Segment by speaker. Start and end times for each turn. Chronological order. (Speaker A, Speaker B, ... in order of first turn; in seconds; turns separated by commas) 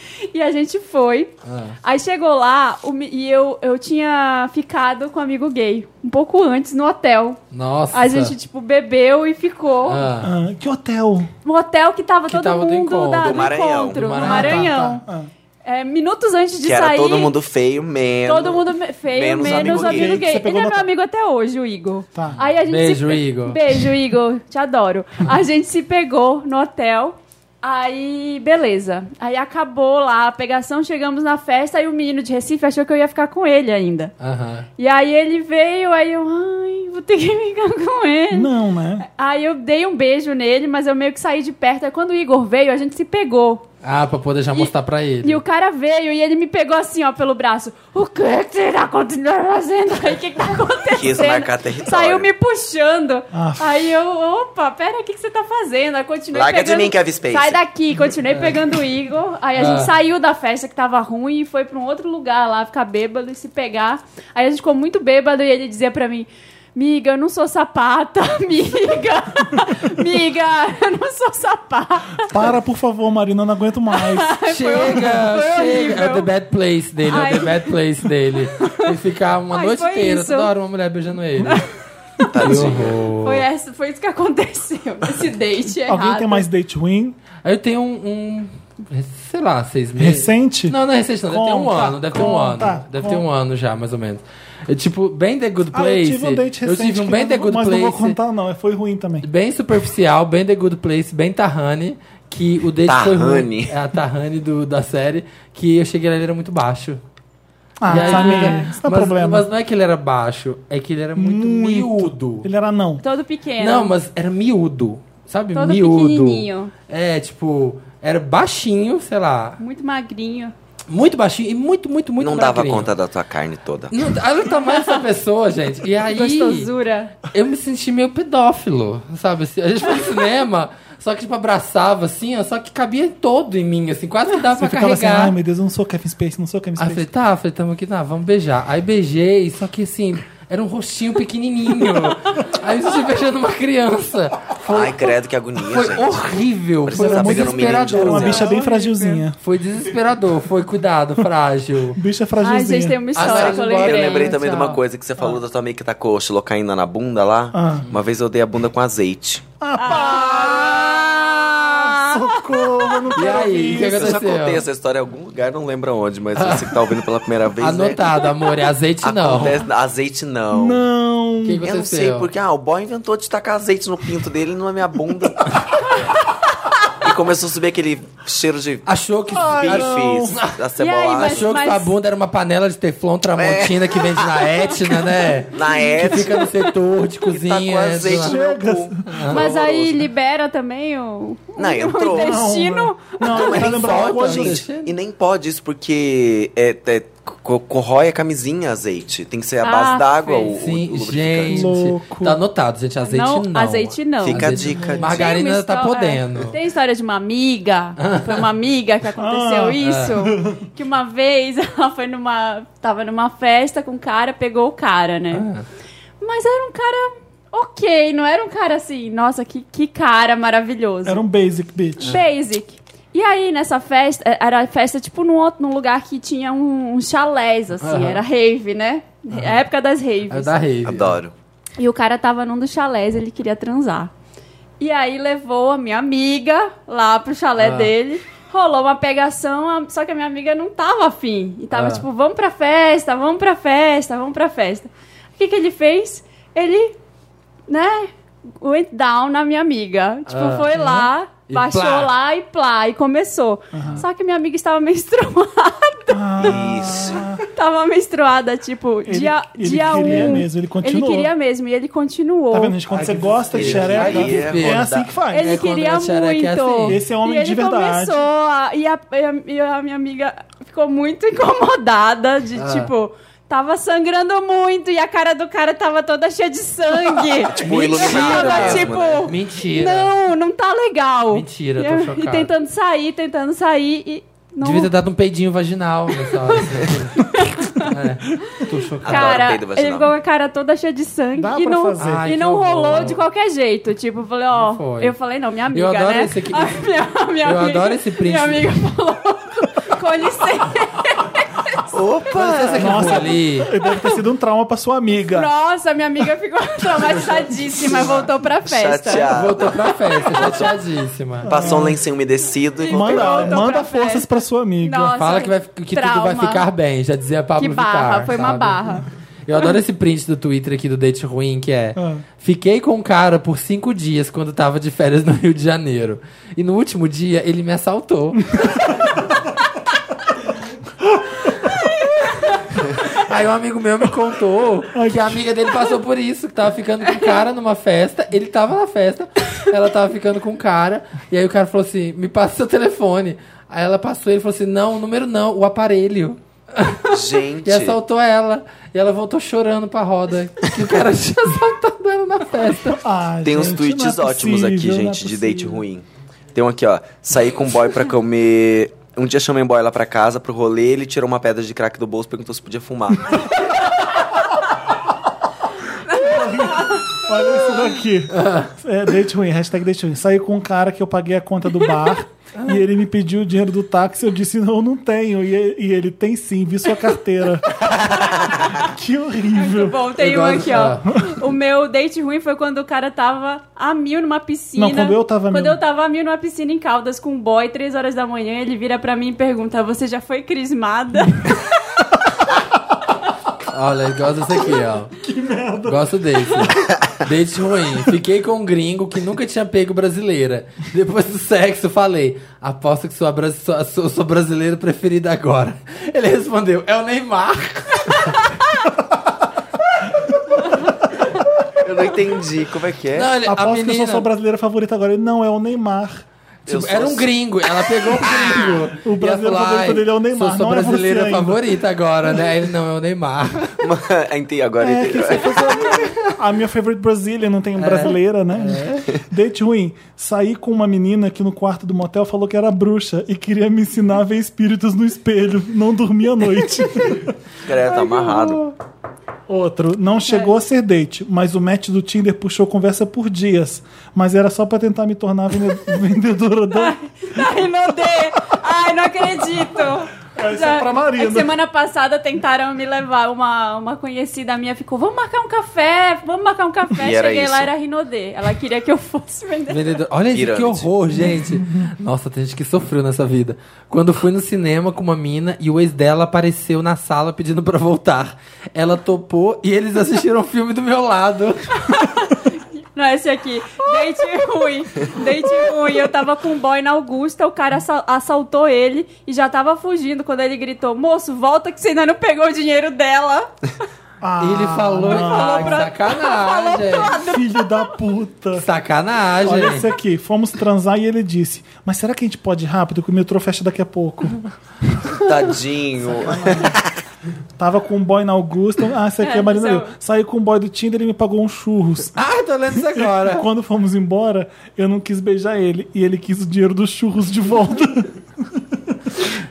Speaker A: 0.3-7.4, Speaker B: 1.4-1.8, Speaker B: 7.5-8.3, Speaker A: 7.9-10.1, Speaker B: 9.9-10.3, Speaker C: 10.2-11.3, Speaker A: 11.4-15.0, Speaker B: 12.3-14.7, Speaker D: 13.2-14.2, Speaker C: 14.2-15.3, Speaker A: 15.6-17.3, Speaker D: 16.6-20.3, Speaker A: 18.2-34.1, Speaker C: 19.4-20.9, Speaker C: 22.1-22.4, Speaker B: 22.7-23.6, Speaker B: 34.2-34.7, Speaker A: 34.8-38.5, Speaker C: 38.3-39.1, Speaker A: 39.1-43.7, Speaker B: 43.8-45.4, Speaker A: 45.2-72.3, Speaker D: 50.9-52.3, Speaker C: 53.3-53.8, Speaker D: 56.3-57.6, Speaker B: 58.3-58.6, Speaker B: 59.6-59.9, Speaker C: 72.2-74.3, Speaker A: 73.9-76.3, Speaker B: 74.5-81.6, Speaker A: 77.1-77.7, Speaker A: 78.6-78.9, Speaker A: 79.5-80.5, Speaker A: 82.2-82.7, Speaker D: 82.2-83.0, Speaker B: 82.4-83.4, Speaker A: 83.2-86.4, Speaker C: 85.9-87.2, Speaker B: 87.4-98.2, Speaker C: 90.0-90.8, Speaker C: 91.3-93.2, Speaker C: 95.7-99.3, Speaker B: 99.2-107.0, Speaker D: 102.8-103.7, Speaker C: 107.8-109.5, Speaker B: 107.9-112.5, Speaker A: 107.9-108.7, Speaker C: 111.2-113.0, Speaker A: 113.0-113.9, Speaker B: 113.6-119.6, Speaker A: 115.5-116.7, Speaker A: 119.6-120.5, Speaker B: 120.9-122.9, Speaker D: 122.2-123.9, Speaker B: 123.9-126.7, Speaker A: 124.6-125.0, Speaker A: 126.0-127.2, Speaker B: 127.3-135.3, Speaker C: 134.4-137.1, Speaker B: 136.8-145.1, Speaker D: 144.6-146.3, Speaker B: 145.6-148.4, Speaker D: 146.8-148.5, Speaker C: 146.9-149.4, Speaker A: 148.2-149.2, Speaker B: 149.4-152.0, Speaker C: 151.9-153.0, Speaker A: 152.4-154.6, Speaker B: 153.1-154.8, Speaker D: 153.2-159.4, Speaker C: 157.5-157.9, Speaker C: 159.6-164.3, Speaker A: 159.8-163.0, Speaker B: 163.1-164.6, Speaker D: 163.7-168.2, Speaker B: 166.3-166.9, Speaker B: 167.6-169.6, Speaker D: 169.0-170.8, Speaker C: 170.5-171.6, Speaker B: 171.4-172.3, Speaker D: 171.6-175.8, Speaker D: 177.0-178.9, Speaker B: 178.8-180.6, Speaker C: 179.3-180.4, Speaker D: 179.4-181.6, Speaker A: 180.8-181.9, Speaker B: 181.2-188.4, Speaker D: 183.3-186.4, Speaker D: 187.3-190.0, Speaker C: 188.1-189.3, Speaker B: 189.1-189.5, Speaker A: 189.3-193.7, Speaker D: 191.6-192.4, Speaker C: 192.1-194.6, Speaker D: 193.2-201.7, Speaker B: 193.6-194.9, Speaker A: 199.6-200.5, Speaker B: 200.5-206.6, Speaker C: 201.5-202.4, Speaker A: 203.0-215.4, Speaker D: 204.2-205.2, Speaker C: 204.7-205.0, Speaker B: 208.0-208.5, Speaker C: 209.2-210.7, Speaker B: 209.8-210.1, Speaker B: 215.3-215.6, Speaker A: 216.2-221.2, Speaker C: 221.0-222.2, Speaker A: 222.0-230.6, Speaker B: 227.8-228.2, Speaker B: 230.3-231.2, Speaker D: 230.8-231.3, Speaker A: 231.8-234.1, Speaker A: 234.8-246.9, Speaker B: 237.6-237.9, Speaker B: 241.7-242.0, Speaker A: 247.7-256.6, Speaker B: 250.3-252.1, Speaker C: 253.7-254.0, Speaker C: 256.1-257.4, Speaker D: 256.4-257.2, Speaker A: 257.5-262.8, Speaker C: 259.1-261.3, Speaker C: 262.5-265.5, Speaker B: 262.9-267.0, Speaker D: 263.5-265.1, Speaker A: 265.3-284.9, Speaker C: 266.8-268.2, Speaker B: 272.6-272.9, Speaker D: 277.5-279.3, Speaker B: 277.9-280.1, Speaker B: 281.3-282.5, Speaker B: 284.6-289.5, Speaker A: 286.3-286.6, Speaker A: 287.2-287.9, Speaker D: 289.0-290.1, Speaker A: 289.1-301.8, Speaker C: 291.4-292.3, Speaker B: 292.0-293.2, Speaker B: 294.5-295.1, Speaker B: 295.7-296.8, Speaker B: 297.4-298.7, Speaker D: 301.9-303.2, Speaker B: 302.3-303.7, Speaker C: 302.7-305.5, Speaker A: 303.8-304.1, Speaker A: 305.3-309.4, Speaker B: 307.1-308.2, Speaker D: 308.6-309.8, Speaker B: 309.3-311.5, Speaker D: 310.3-310.7, Speaker C: 311.4-312.0, Speaker D: 311.4-313.7, Speaker A: 312.8-314.3, Speaker C: 312.9-315.2, Speaker A: 314.8-316.6, Speaker B: 315.2-318.8, Speaker A: 317.6-319.1, Speaker B: 319.4-329.0, Speaker C: 321.9-322.2, Speaker B: 332.9-353.0, Speaker C: 334.9-335.4, Speaker D: 347.1-348.0, Speaker C: 352.8-355.8, Speaker D: 353.4-363.6, Speaker A: 366.1-367.2, Speaker C: 366.1-377.8, Speaker B: 368.3-368.7, Speaker B: 377.9-378.3, Speaker A: 378.3-378.8, Speaker C: 378.6-380.2, Speaker A: 379.5-391.6, Speaker B: 380.2-381.1, Speaker C: 384.8-385.8, Speaker B: 393.7-395.1, Speaker C: 395.1-396.6, Speaker B: 395.9-408.4, Speaker D: 411.8-413.3, Speaker B: 413.1-414.3, Speaker C: 413.4-416.2, Speaker B: 416.6-423.8, Speaker D: 416.7-417.3, Speaker C: 418.3-421.6, Speaker D: 423.8-425.7, Speaker C: 424.8-438.7, Speaker B: 427.8-429.1, Speaker D: 437.6-438.6, Speaker C: 439.5-447.0, Speaker A: 446.7-460.0, Speaker C: 450.3-451.5, Speaker D: 457.0-457.7, Speaker B: 459.7-471.7, Speaker D: 460.3-460.9, Speaker A: 471.9-483.5, Speaker C: 484.2-485.9, Speaker B: 484.4-487.1, Speaker A: 485.0-487.9, Speaker C: 487.1-488.7, Speaker B: 488.6-489.9, Speaker C: 489.4-494.4, Speaker D: 495.1-496.9, Speaker C: 496.1-496.8, Speaker C: 497.6-502.2, Speaker A: 499.2-499.9, Speaker B: 502.1-503.4, Speaker C: 502.7-509.2